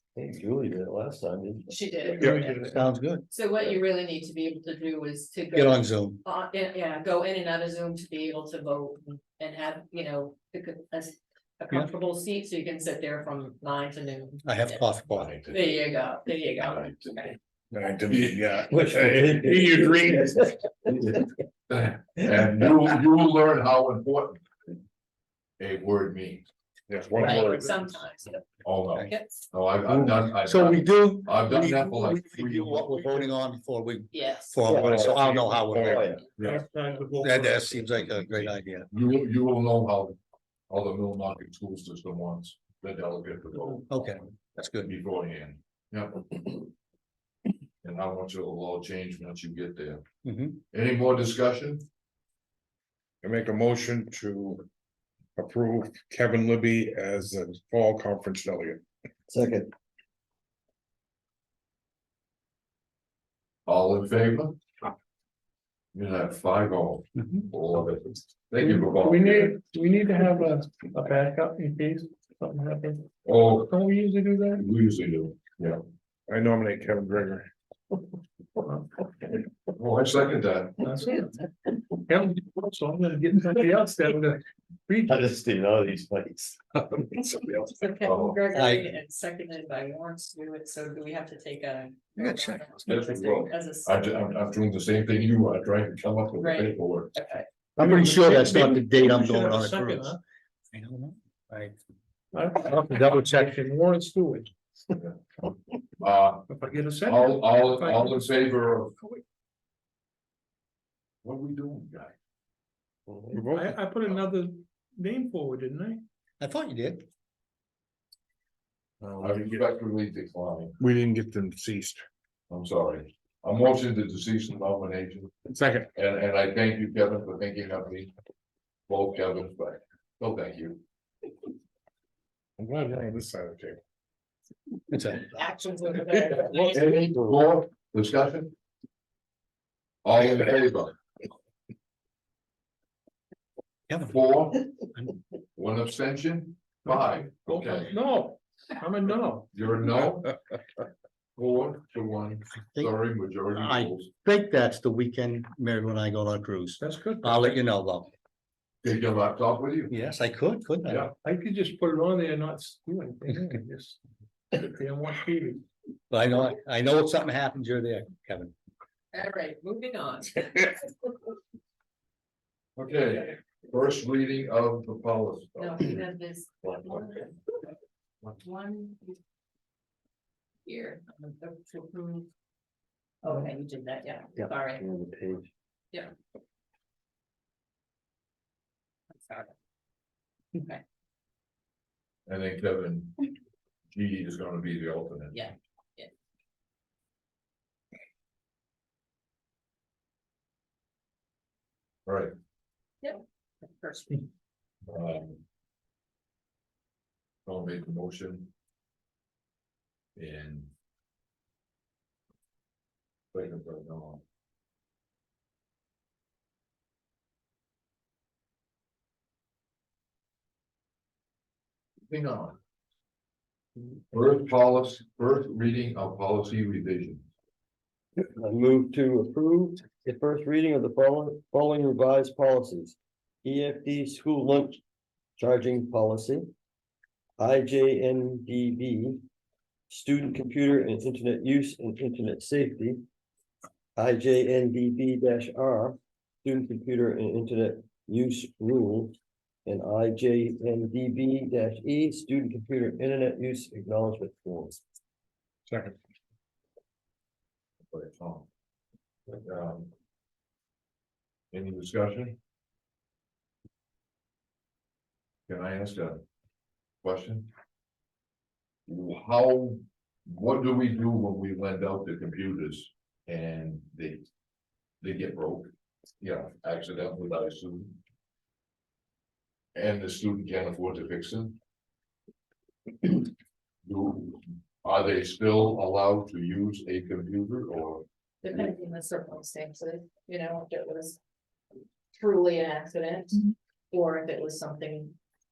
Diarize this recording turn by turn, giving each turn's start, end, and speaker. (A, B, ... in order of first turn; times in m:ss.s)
0:00.2-0:01.7 A
0:01.7-0:14.9 B
0:02.2-0:02.7 C
0:02.7-0:03.3 D
0:05.5-0:06.2 D
0:14.4-0:15.3 D
0:15.1-0:15.8 E
0:15.5-0:17.4 B
0:16.7-0:17.2 E
0:17.7-0:20.5 C
0:18.7-0:20.4 A
0:20.9-0:24.4 E
0:25.6-0:26.5 E
0:26.9-0:27.9 C
0:27.2-0:29.5 B
0:28.6-0:33.0 E
0:29.9-0:36.2 D
0:34.1-0:34.6 B
0:34.7-0:35.1 A
0:34.7-0:36.5 C
0:35.7-0:36.3 A
0:36.4-0:37.5 F
0:37.2-0:38.9 D
0:38.9-0:40.2 E
0:40.7-0:43.9 E
0:43.9-0:44.9 D
0:44.8-0:46.3 E
0:47.8-0:50.0 E
0:50.2-0:50.6 D
0:50.7-0:51.9 E
0:53.2-0:54.7 C
0:55.4-0:58.8 C
0:59.3-0:59.7 A
1:03.7-1:04.6 E
1:05.9-1:09.6 E
1:08.6-1:13.1 F
1:13.2-1:13.7 E
1:13.7-1:14.7 F
1:14.6-1:15.8 E
1:16.3-1:17.5 C
1:19.8-1:20.8 E
1:20.8-1:21.3 F
1:22.1-1:25.2 F
1:25.1-1:27.1 A
1:27.7-1:34.1 B
1:28.0-1:28.4 E
1:28.6-1:28.9 D
1:32.2-1:32.8 D
1:32.9-1:37.1 E
1:36.4-1:37.5 B
1:37.8-1:40.2 D
1:37.8-1:40.2 F
1:40.7-1:41.8 D
1:42.3-1:44.5 F
1:42.7-1:43.5 D
1:44.9-1:45.2 E
1:46.0-1:46.5 E
1:46.6-1:48.3 F
1:47.0-1:48.9 E
1:51.2-1:52.2 E
1:53.1-1:53.4 A
1:53.3-1:53.9 C
1:53.5-1:56.0 F
1:56.4-1:57.1 D
1:59.0-1:59.6 C
1:59.2-2:00.8 E
2:00.8-2:02.1 C
2:02.5-2:05.4 E
2:05.5-2:05.9 C
2:06.0-2:08.1 E
2:08.9-2:10.8 E
2:12.6-2:13.8 C
2:14.9-2:15.2 D
2:15.1-2:16.8 B
2:16.3-2:18.6 E
2:20.0-2:21.0 E
2:23.9-2:24.3 D
2:24.0-2:24.7 E
2:25.6-2:27.9 E
2:27.5-2:29.5 F
2:29.5-2:30.4 E
2:31.4-2:34.1 E
2:32.7-2:33.0 D
2:33.5-2:38.1 D
2:36.8-2:37.6 F
2:38.8-2:40.0 E
2:39.9-2:41.1 D
2:40.8-2:41.1 E
2:41.2-2:44.0 F
2:44.6-2:45.6 F
2:46.1-2:48.5 D
2:49.1-2:50.9 B
2:52.8-2:56.0 E
2:55.6-2:57.4 B
2:56.6-2:57.0 E
2:58.4-2:59.2 B
3:00.6-3:02.3 B
3:03.2-3:04.8 B
3:04.4-3:05.5 A
3:09.1-3:09.5 B
3:10.6-3:10.8 B
3:12.3-3:13.3 E
3:13.9-3:15.4 E
3:15.3-3:16.1 B
3:22.1-3:22.3 E
3:23.0-3:24.3 B
3:24.9-3:25.4 E
3:27.5-3:28.5 E
3:30.2-3:30.7 E
3:33.3-3:34.2 E
3:42.1-3:42.6 E
3:44.1-3:47.3 E
3:48.2-3:54.8 A
3:55.4-3:56.5 A
3:57.4-3:59.2 A
3:59.9-4:03.0 A
4:04.0-4:09.2 A
4:09.7-4:14.8 A
4:15.7-4:16.0 C
4:17.9-4:18.5 E
4:19.3-4:19.9 E
4:21.5-4:22.4 E
4:25.5-4:26.2 E
4:27.0-4:27.5 E
4:28.9-4:34.3 E
4:35.0-4:38.0 E
4:39.8-4:41.6 E
4:43.8-4:48.0 E
4:48.4-4:51.2 B
4:52.1-4:55.2 B